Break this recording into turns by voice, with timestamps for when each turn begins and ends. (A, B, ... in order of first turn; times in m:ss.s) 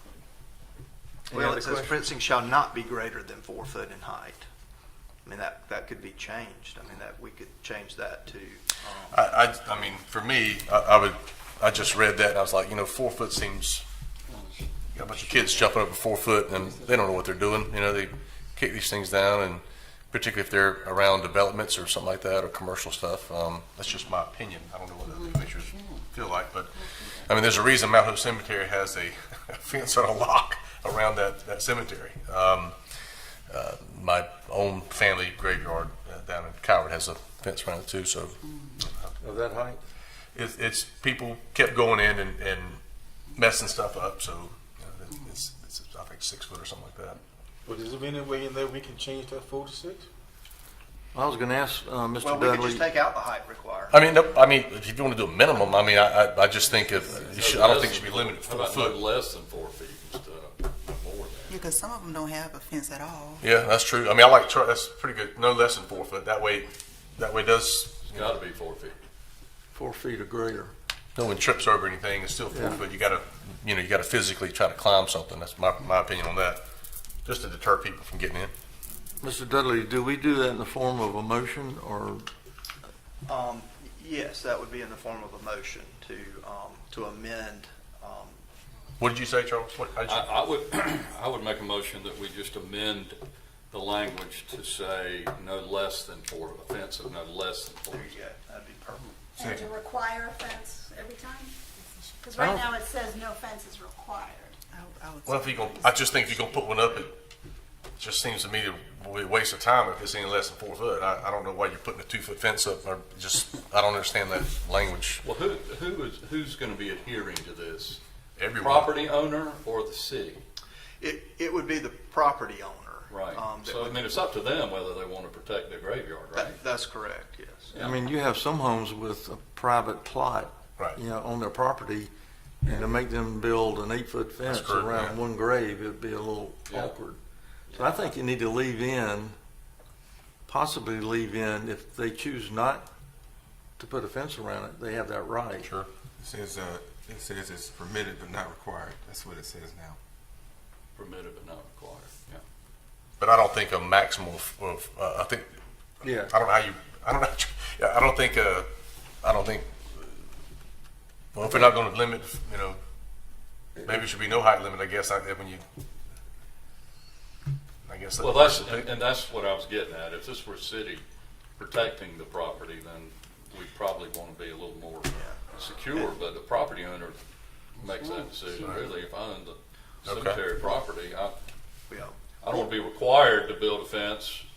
0:01.3-0:02.0 A
0:01.3-0:04.4 B
0:05.2-0:09.2 B
0:09.1-0:13.8 C
0:14.9-0:32.7 C
0:33.5-0:39.1 C
0:39.2-0:39.8 A
0:40.3-0:42.8 C
0:43.3-0:47.2 C
0:47.6-0:50.1 D
0:51.1-0:52.9 A
0:52.2-0:54.1 B
0:53.9-0:59.0 C
0:57.0-1:01.6 E
1:01.5-1:03.4 F
1:03.4-1:08.3 C
1:08.1-1:09.0 E
1:09.7-1:10.7 A
1:11.2-1:16.6 C
1:12.5-1:12.8 A
1:17.2-1:18.5 C
1:19.2-1:22.3 A
1:23.2-1:28.4 B
1:29.0-1:30.3 C
1:30.0-1:33.2 E
1:33.7-1:38.1 E
1:37.9-1:39.1 B
1:39.4-1:41.5 G
1:39.4-1:39.7 H
1:42.2-1:44.6 G
1:44.8-1:45.3 F
1:45.2-1:47.2 C
1:48.0-1:55.2 C
1:55.2-1:58.0 E
1:58.4-1:58.9 C
1:58.6-2:00.4 E
2:01.0-2:04.1 B
2:03.1-2:06.6 E
2:06.3-2:07.7 B
2:07.7-2:08.0 E
2:07.8-2:17.2 A
2:14.4-2:15.2 C
2:16.7-2:16.9 E
2:17.7-2:18.1 E
2:17.7-2:19.4 A
2:20.4-2:22.9 A
2:23.8-2:25.7 A
2:25.6-2:25.9 C
2:26.2-2:30.0 H
2:31.0-2:32.4 E
2:33.2-2:35.5 C
2:36.0-2:38.7 C
2:36.0-2:36.3 A
2:39.2-2:40.2 C
2:41.3-2:42.8 C
2:43.8-2:45.6 C
2:47.8-2:48.9 C
2:48.2-2:51.0 E
2:51.6-2:57.2 E
2:57.8-3:01.4 E
3:00.0-3:00.4 C
3:01.9-3:02.2 B
3:02.4-3:04.4 E